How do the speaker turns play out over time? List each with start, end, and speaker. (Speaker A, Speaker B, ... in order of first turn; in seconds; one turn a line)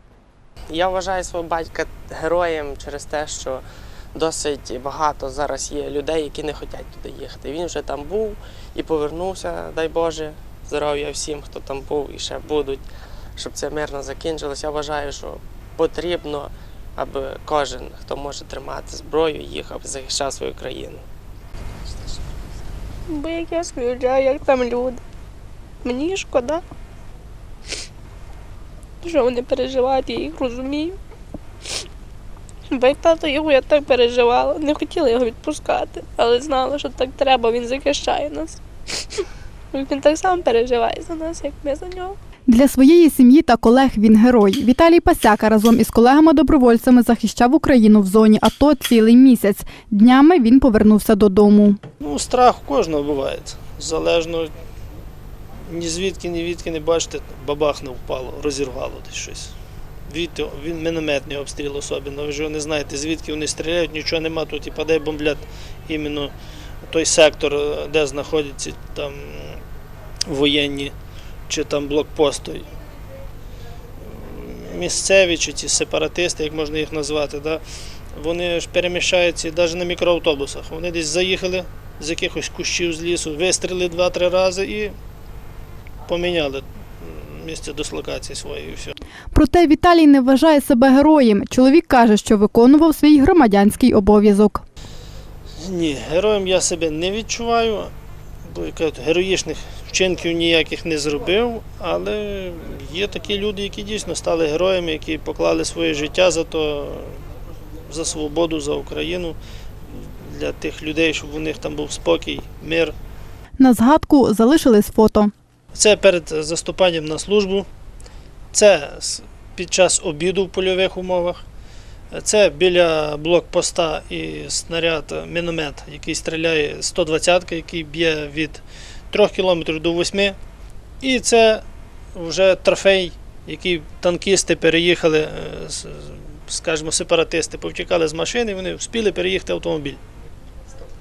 Speaker A: 0.7-21.0
Speaker B: 23.1-25.0
Speaker B: 25.8-26.6
Speaker B: 29.0-31.0
Speaker B: 32.7-38.6
Speaker B: 39.1-42.2
Speaker C: 42.5-51.8
Speaker D: 52.0-54.5
Speaker D: 55.7-59.5
Speaker D: 60.1-66.3
Speaker D: 66.9-69.6
Speaker D: 70.3-70.9
Speaker D: 71.5-72.7
Speaker D: 74.0-77.6
Speaker D: 78.1-84.9
Speaker D: 86.0-88.9
Speaker C: 89.3-94.6
Speaker D: 95.6-97.9
Speaker D: 98.4-107.2
Speaker D: 107.9-109.4
Speaker D: 109.9-112.9
Speaker C: 113.6-115.3
Speaker D: 115.7-117.7
Speaker D: 118.5-121.4
Speaker D: 122.1-130.4
Speaker D: 131.0-131.6
Speaker D: 132.1-140.0